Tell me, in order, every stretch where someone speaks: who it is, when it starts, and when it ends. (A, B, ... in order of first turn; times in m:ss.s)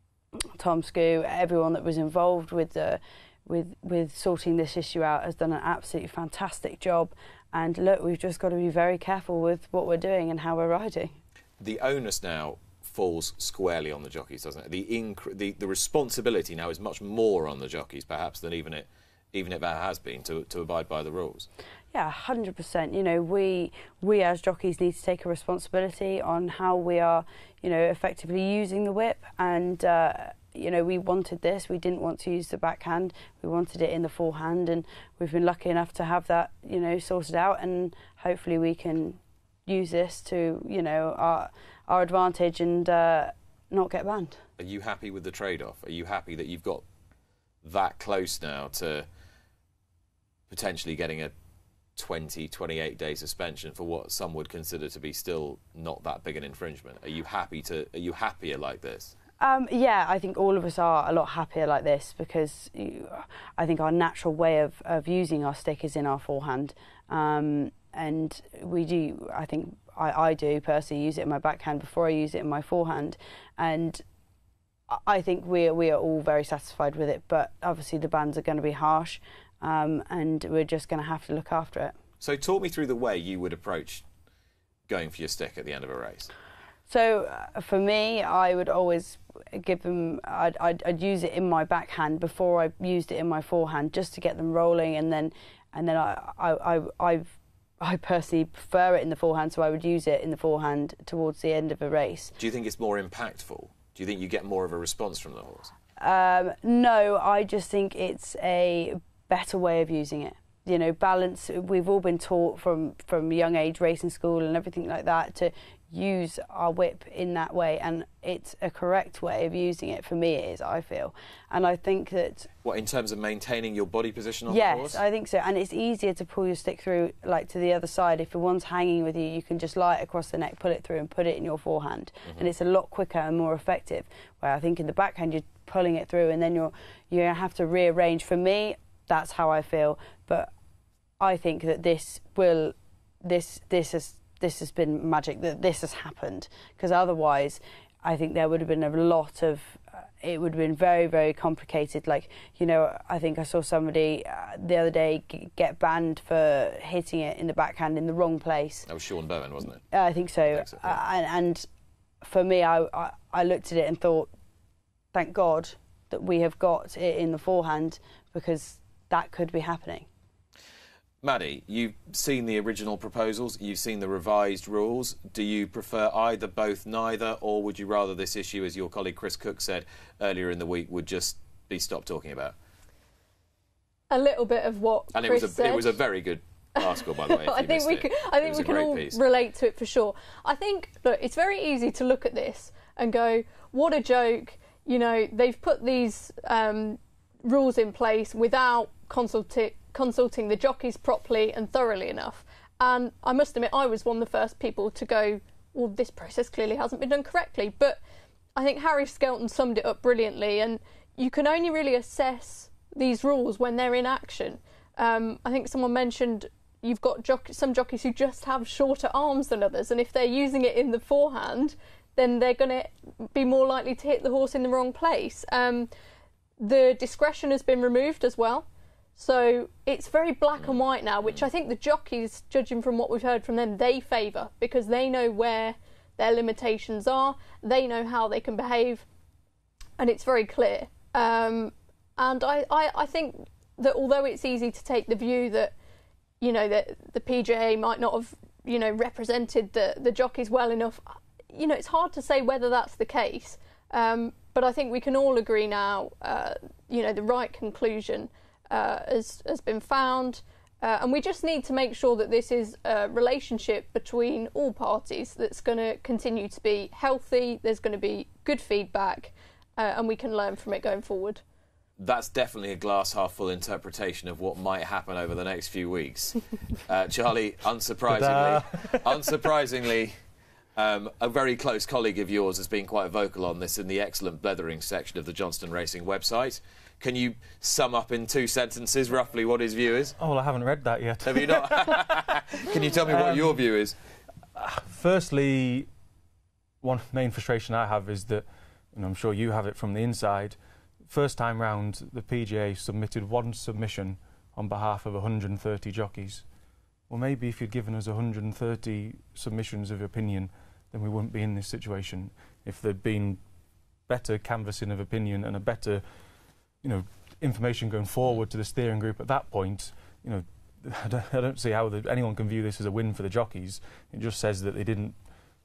0:00.6-0:11.2 A
0:11.6-0:21.5 B
0:21.9-0:44.4 A
0:44.6-0:46.8 B
0:47.6-0:49.1 B
0:50.5-0:51.3 B
0:52.0-0:59.1 B
0:59.4-1:14.0 A
1:14.9-1:22.0 A
1:22.2-1:24.0 B
1:24.9-1:26.3 B
1:26.9-1:42.3 A
1:42.4-1:45.7 B
1:46.0-2:02.5 A
2:02.6-2:05.0 B
2:04.5-2:20.5 A
2:21.2-2:38.9 A
2:38.9-2:39.8 B
2:39.9-2:41.7 A
2:40.4-2:41.0 B
2:42.2-2:44.3 A
2:45.1-2:50.1 A
2:51.2-3:02.6 B
3:04.1-3:06.0 C
3:05.1-3:09.2 B
3:06.8-3:28.0 C
3:28.6-3:45.9 C
3:46.6-3:59.0 C
4:00.0-4:05.7 C
4:06.4-4:31.4 C
4:32.0-4:40.2 B
4:38.1-4:39.3 D
4:40.8-4:50.2 B
4:50.2-4:52.3 D
4:51.2-4:54.0 B
4:53.0-4:53.6 D
4:54.6-4:55.9 D
4:56.8-5:06.4 D
5:07.1-5:13.4 D
5:14.1-5:16.0 D
5:16.8-5:25.2 D